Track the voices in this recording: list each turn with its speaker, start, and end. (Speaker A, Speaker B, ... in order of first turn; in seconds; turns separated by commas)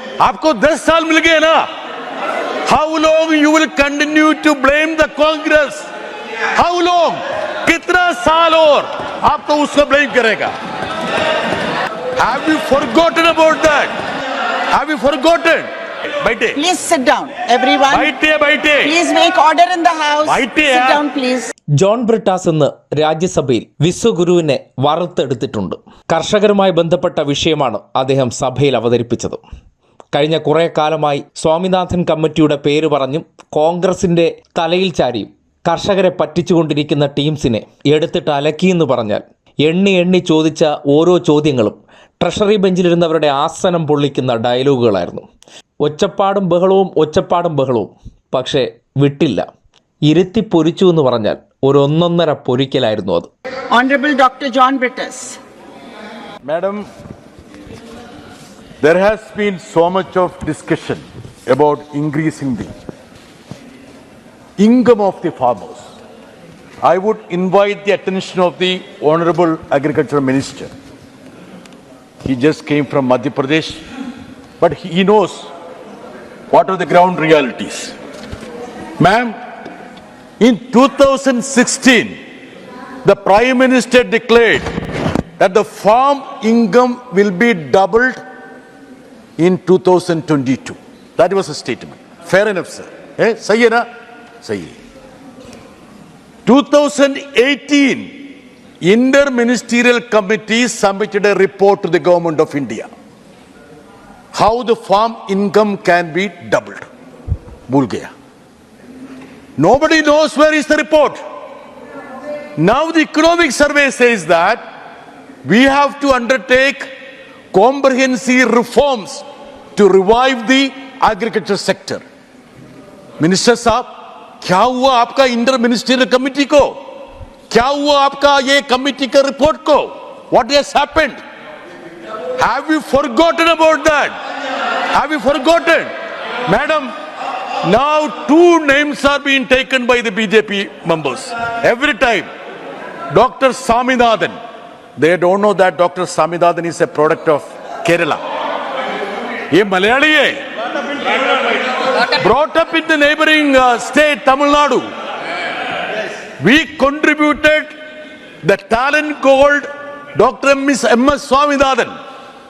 Speaker A: 0.2-1.7, Speaker A: 2.7-5.9, Speaker A: 6.5-10.5, Speaker A: 12.2-13.9, Speaker A: 14.7-15.7, Speaker A: 16.2-16.6, Speaker B: 16.5-18.1, Speaker A: 17.9-18.9, Speaker B: 18.8-21.5, Speaker A: 20.2-21.0, Speaker C: 21.8-29.4, Speaker C: 30.1-45.2, Speaker C: 45.8-49.5, Speaker C: 50.1-53.3, Speaker B: 53.7-55.4, Speaker A: 56.4-56.9, Speaker A: 58.8-62.7, Speaker A: 64.6-65.8, Speaker A: 66.8-70.7, Speaker A: 72.2-73.8, Speaker A: 74.6-75.5, Speaker A: 76.5-77.9, Speaker A: 79.0-79.3, Speaker A: 80.4-82.2, Speaker A: 83.0-84.7, Speaker A: 85.4-88.2, Speaker A: 89.4-93.8, Speaker A: 94.4-94.8, Speaker A: 96.5-98.2, Speaker A: 98.8-102.9, Speaker A: 104.3-106.8, Speaker A: 107.7-108.1, Speaker A: 109.6-111.2, Speaker A: 112.6-114.6, Speaker A: 115.4-116.9, Speaker A: 117.5-119.2, Speaker A: 119.7-122.0, Speaker A: 123.2-123.9, Speaker A: 124.4-126.7, Speaker A: 127.5-131.2, Speaker A: 132.4-134.1, Speaker A: 134.9-135.9, Speaker A: 136.5-136.9, Speaker A: 137.6-142.3, Speaker A: 143.1-144.3, Speaker A: 145.0-148.2, Speaker A: 149.5-150.4, Speaker A: 152.1-154.9, Speaker A: 156.4-157.7, Speaker A: 158.4-161.9